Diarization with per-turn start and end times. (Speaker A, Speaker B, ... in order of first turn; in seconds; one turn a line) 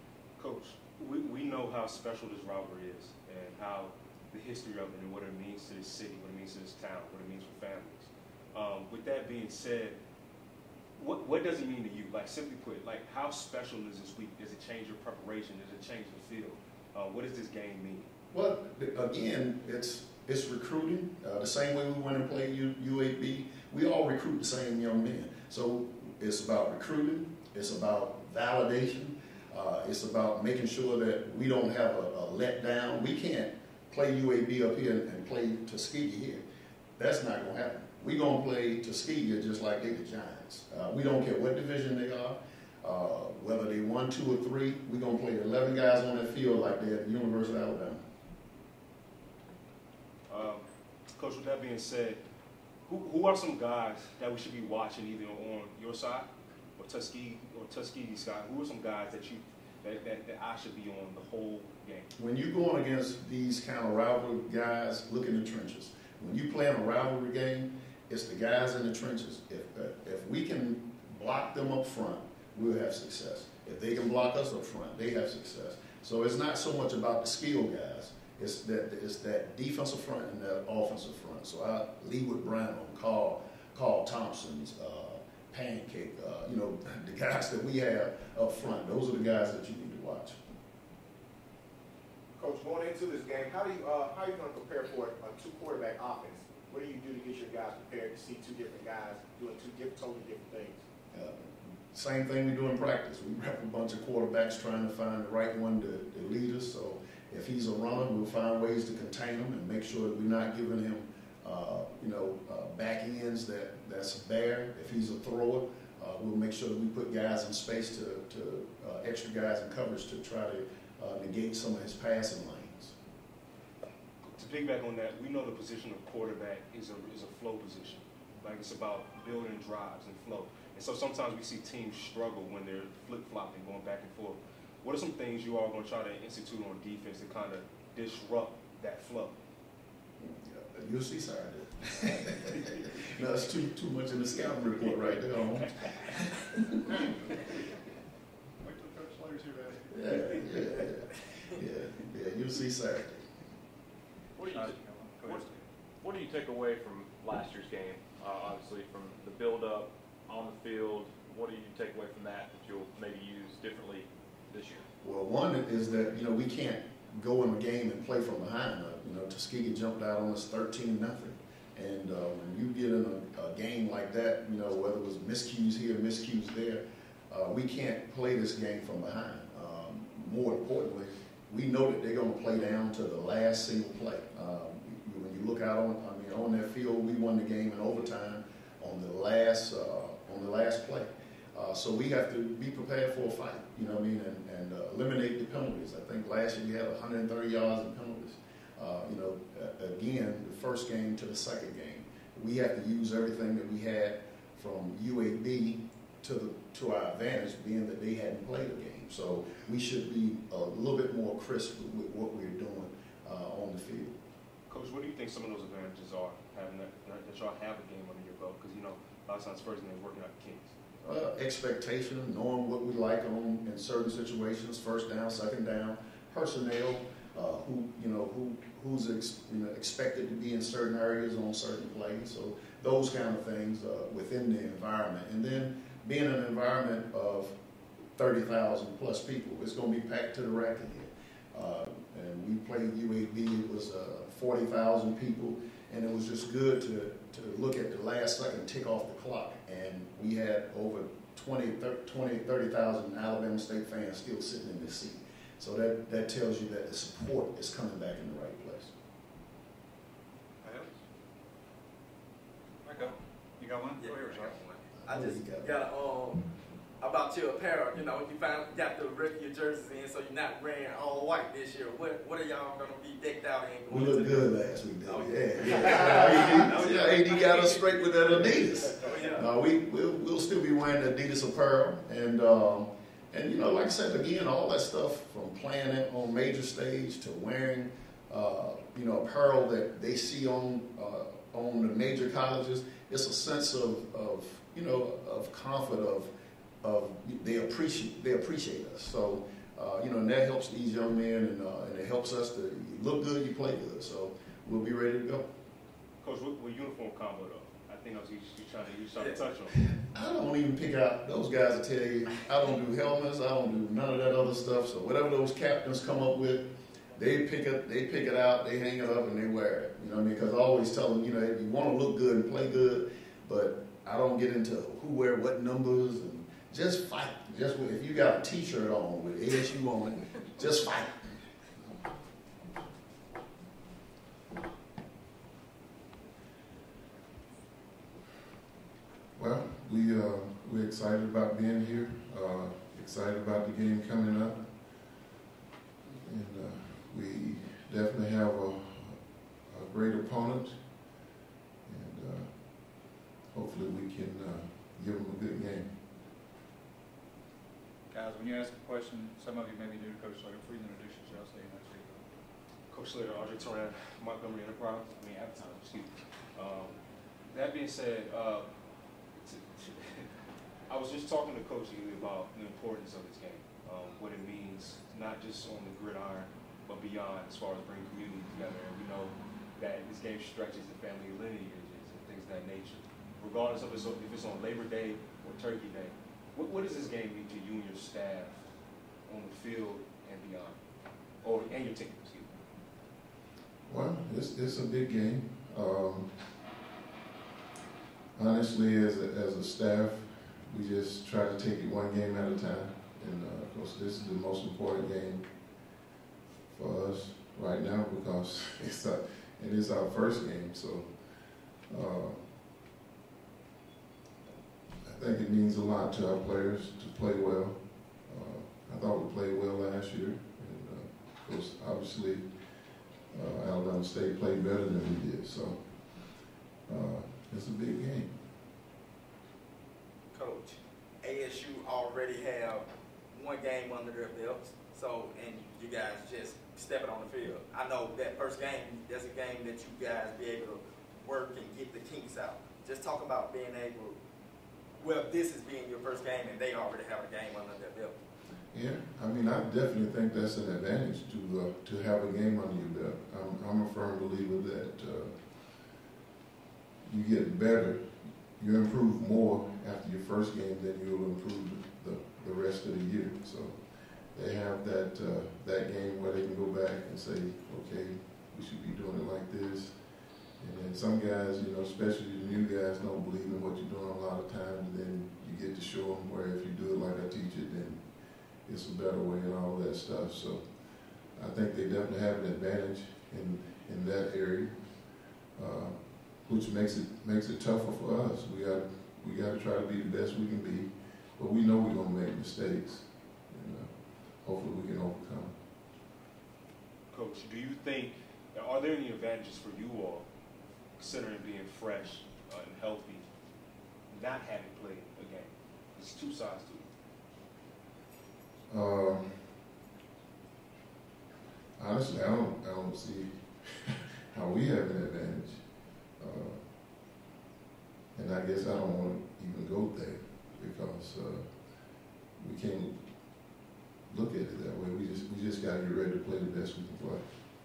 Speaker A: 0.4-10.0
Speaker A: 11.0-18.1
Speaker B: 18.3-36.4
Speaker B: 37.0-48.0
Speaker A: 50.3-50.6
Speaker A: 51.1-52.2
Speaker A: 52.9-62.1
Speaker B: 62.2-90.4
Speaker C: 92.3-100.8
Speaker B: 101.1-123.0
Speaker A: 124.2-139.3
Speaker B: 140.2-146.3
Speaker D: 148.6-150.9
Speaker B: 149.9-153.3
Speaker E: 154.4-155.4
Speaker D: 154.5-155.6
Speaker E: 156.0-164.9
Speaker B: 165.0-214.1
Speaker A: 214.7-220.7
Speaker B: 221.0-237.6
Speaker B: 238.2-258.9
Speaker D: 260.6-260.9
Speaker D: 262.8-264.6
Speaker F: 262.9-263.2
Speaker F: 263.9-266.4
Speaker B: 265.0-265.8
Speaker F: 267.0-274.5
Speaker B: 273.9-296.3
Speaker F: 275.1-279.4
Speaker B: 296.8-305.4
Speaker A: 306.2-309.9
Speaker B: 309.9-331.2
Speaker G: 339.3-345.4
Speaker G: 346.1-351.2
Speaker G: 351.8-356.0
Speaker D: 358.1-362.2
Speaker A: 362.9-367.0
Speaker A: 367.5-368.6
Speaker A: 369.3-370.3
Speaker A: 370.9-388.6
Speaker A: 389.2-390.8
Speaker A: 391.4-392.6
Speaker G: 393.8-396.6
Speaker G: 398.3-405.9
Speaker G: 406.7-412.6
Speaker G: 415.0-428.4
Speaker F: 430.3-444.2
Speaker F: 445.0-448.2
Speaker G: 448.7-456.0
Speaker G: 457.0-495.6
Speaker A: 497.1-500.2
Speaker A: 501.0-503.2
Speaker A: 504.1-506.9
Speaker G: 508.7-509.6
Speaker G: 511.8-517.0
Speaker G: 518.1-527.3